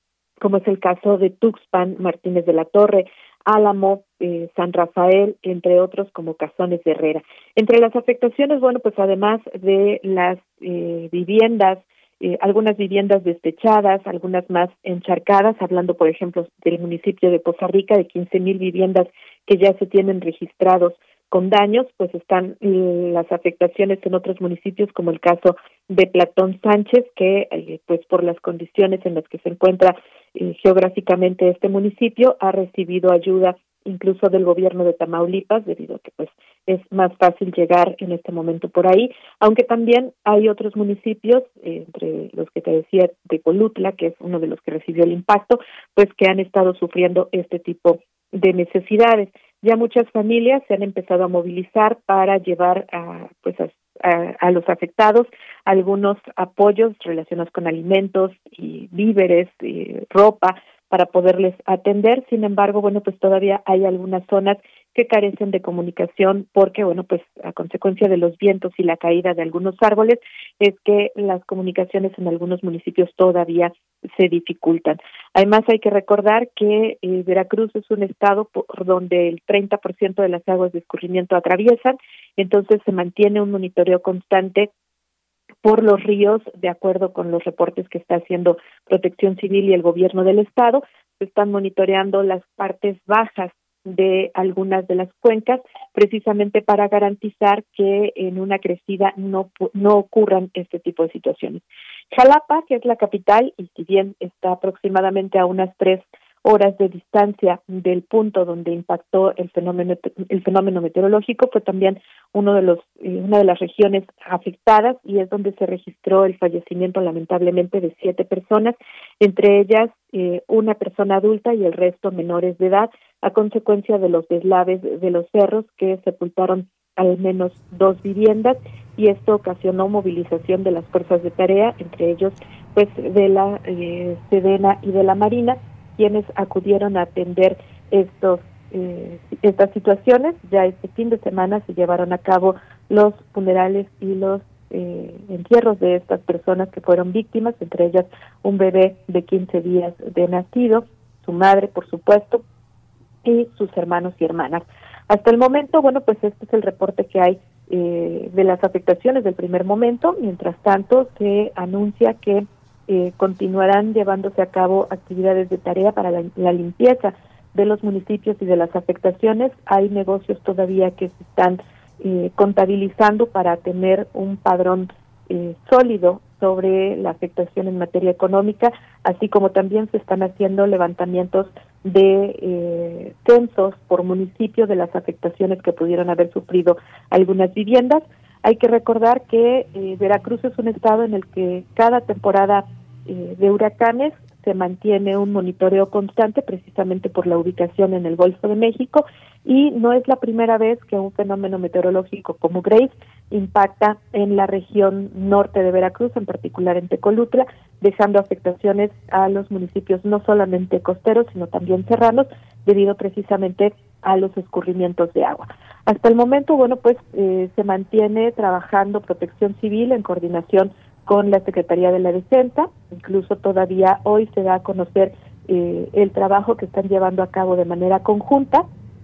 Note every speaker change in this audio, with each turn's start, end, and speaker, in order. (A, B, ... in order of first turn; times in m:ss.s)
0:00.4-1:24.7 A
1:25.6-2:32.4 A
2:33.2-3:48.7 A